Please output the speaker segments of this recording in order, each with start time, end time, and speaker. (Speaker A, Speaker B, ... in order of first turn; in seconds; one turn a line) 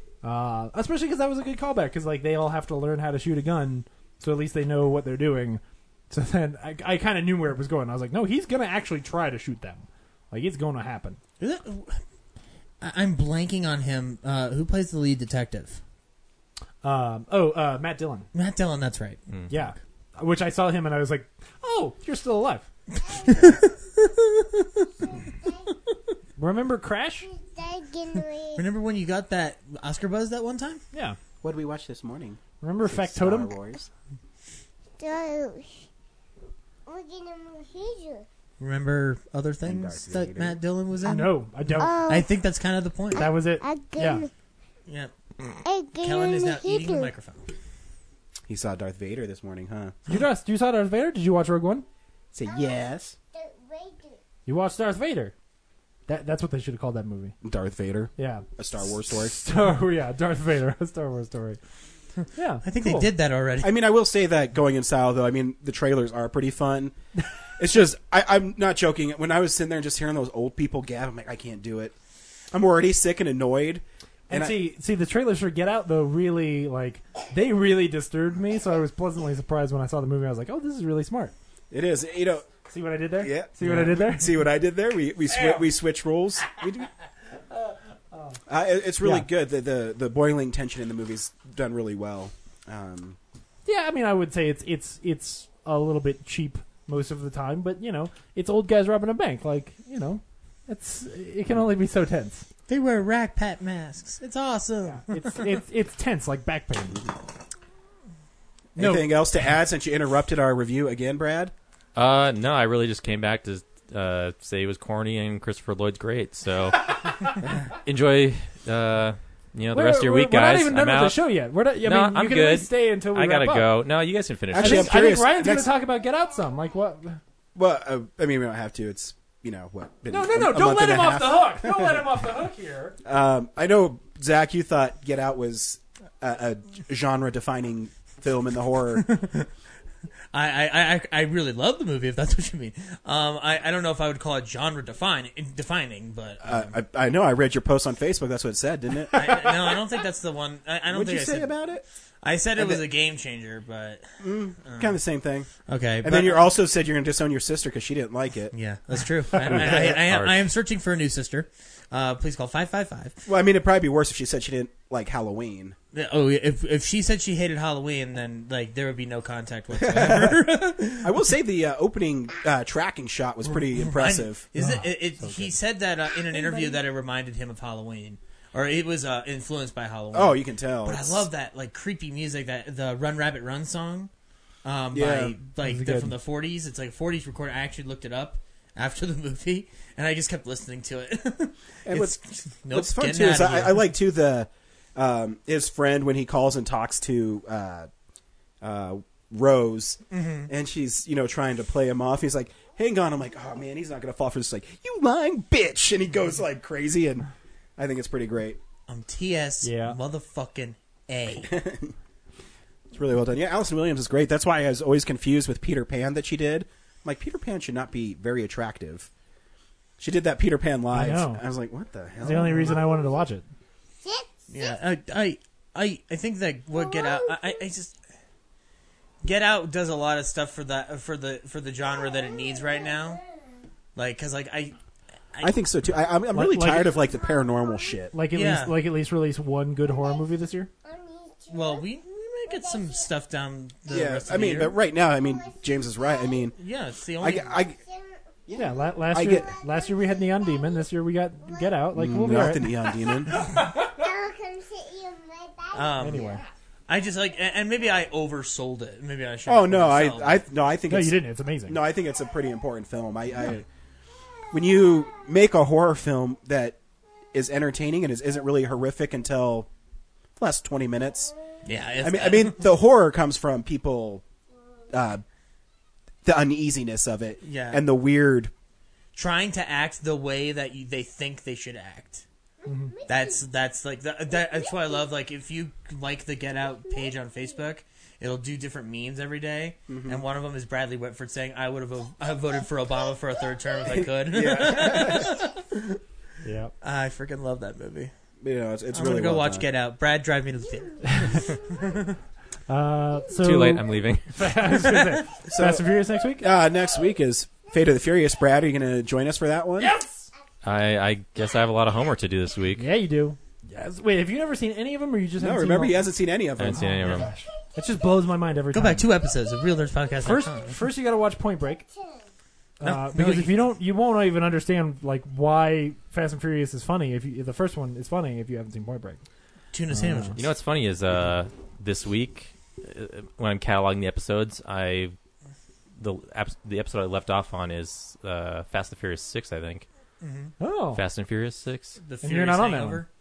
Speaker A: 0.2-11.2
Speaker B: 11.4-12.0
Speaker B: 12.8-15.8
Speaker A: 16.8-18.3
Speaker B: 18.3-19.2
Speaker A: 19.5-22.7
Speaker C: 23.1-23.7
Speaker B: 23.1-24.9
Speaker C: 25.2-25.6
Speaker A: 26.4-27.3
Speaker C: 27.2-28.7
Speaker B: 28.6-30.8
Speaker D: 31.4-33.9
Speaker A: 32.6-33.5
Speaker C: 35.0-35.9
Speaker C: 36.9-38.3
Speaker B: 38.6-43.3
Speaker D: 39.6-40.6
Speaker A: 41.1-42.0
Speaker C: 41.8-42.3
Speaker A: 43.2-44.2
Speaker C: 43.6-44.3
Speaker C: 45.6-47.1
Speaker B: 46.0-47.5
Speaker D: 48.5-50.0
Speaker A: 50.1-51.9
Speaker D: 52.3-53.2
Speaker C: 52.4-54.2
Speaker A: 54.5-55.3
Speaker A: 56.1-57.4
Speaker D: 57.4-59.4
Speaker A: 58.2-58.5
Speaker A: 59.1-61.6
Speaker A: 62.4-63.1
Speaker B: 62.6-63.8
Speaker D: 63.6-67.0
Speaker D: 67.6-72.0
Speaker D: 72.5-74.6
Speaker A: 74.3-81.3
Speaker D: 81.7-82.5
Speaker A: 82.7-84.5
Speaker D: 83.2-86.9
Speaker A: 85.3-85.7
Speaker A: 88.1-88.4
Speaker D: 88.5-93.2
Speaker A: 89.0-89.3
Speaker A: 93.7-102.5
Speaker B: 102.7-105.6
Speaker A: 104.9-107.0
Speaker D: 108.8-111.5
Speaker A: 108.8-109.2
Speaker E: 112.0-125.0
Speaker A: 119.7-123.8
Speaker D: 124.5-125.8
Speaker A: 124.5-127.2
Speaker D: 127.5-132.2
Speaker A: 130.1-133.0
Speaker D: 133.1-139.2
Speaker B: 139.1-139.5
Speaker B: 140.3-146.7
Speaker D: 146.4-149.5
Speaker B: 149.2-151.7
Speaker D: 150.9-151.8
Speaker B: 152.2-154.1
Speaker D: 152.6-152.8
Speaker D: 154.2-158.5
Speaker B: 154.6-155.0
Speaker B: 155.7-156.5
Speaker B: 158.5-163.2
Speaker D: 159.4-160.0
Speaker E: 159.8-160.3
Speaker D: 163.3-165.8
Speaker B: 165.9-171.2
Speaker D: 169.7-174.4
Speaker B: 173.5-184.1
Speaker A: 174.6-175.6
Speaker A: 176.3-176.7
Speaker D: 180.1-181.3
Speaker B: 184.6-193.9
Speaker D: 184.9-185.3
Speaker A: 185.6-186.1
Speaker D: 191.9-192.2
Speaker D: 192.7-197.9
Speaker D: 198.6-208.6
Speaker B: 200.1-200.5
Speaker B: 208.9-211.5
Speaker A: 209.6-210.0
Speaker D: 211.4-211.9
Speaker D: 212.9-219.1
Speaker D: 220.0-222.8
Speaker A: 220.9-221.4
Speaker A: 222.2-223.4
Speaker C: 224.0-224.8
Speaker B: 224.5-227.9
Speaker C: 226.7-227.6
Speaker B: 229.2-233.2
Speaker C: 231.8-233.6
Speaker B: 234.0-234.8
Speaker D: 235.4-238.1
Speaker A: 236.3-237.0
Speaker C: 237.0-238.1
Speaker A: 238.1-240.7
Speaker B: 238.3-238.8
Speaker C: 239.8-240.3
Speaker C: 240.8-243.1
Speaker B: 241.5-244.8
Speaker D: 243.9-246.6
Speaker C: 243.9-246.5
Speaker B: 246.6-247.6
Speaker D: 247.2-247.8
Speaker C: 247.3-256.4
Speaker D: 248.5-249.5
Speaker A: 248.6-252.8
Speaker D: 251.9-253.4
Speaker B: 255.7-256.3
Speaker A: 256.0-256.5
Speaker B: 256.9-260.4
Speaker D: 259.5-263.7
Speaker A: 260.9-261.8
Speaker D: 264.5-266.8
Speaker D: 267.3-269.7
Speaker D: 270.4-271.3
Speaker B: 271.6-272.6
Speaker D: 272.0-274.2
Speaker D: 274.9-275.2
Speaker D: 276.2-278.5
Speaker B: 277.4-277.8
Speaker B: 279.1-282.2
Speaker C: 282.6-283.5
Speaker A: 282.7-282.9
Speaker B: 283.1-296.0
Speaker C: 284.3-285.1
Speaker C: 286.8-287.6
Speaker D: 289.9-290.2
Speaker C: 292.6-294.0
Speaker D: 293.9-295.4
Speaker A: 296.4-296.7
Speaker B: 296.8-298.1
Speaker D: 298.4-299.7
Speaker B: 298.9-302.0
Speaker C: 300.7-302.1
Speaker A: 301.0-301.4
Speaker A: 302.7-306.5
Speaker E: 303.4-304.3
Speaker B: 304.7-305.2
Speaker D: 305.5-309.9
Speaker C: 306.6-306.9
Speaker A: 309.8-310.3
Speaker E: 310.6-312.9
Speaker A: 312.8-316.1
Speaker D: 315.4-317.1
Speaker E: 316.6-317.3
Speaker A: 316.7-319.1
Speaker B: 318.7-320.8
Speaker A: 320.2-321.8
Speaker C: 321.9-322.2
Speaker A: 322.8-329.2
Speaker B: 322.8-323.7
Speaker B: 329.7-330.5
Speaker A: 329.9-330.4
Speaker E: 330.4-335.2
Speaker E: 336.0-339.9
Speaker B: 340.2-340.5
Speaker A: 340.6-341.0
Speaker E: 340.9-342.0
Speaker B: 342.0-343.1
Speaker A: 342.2-343.1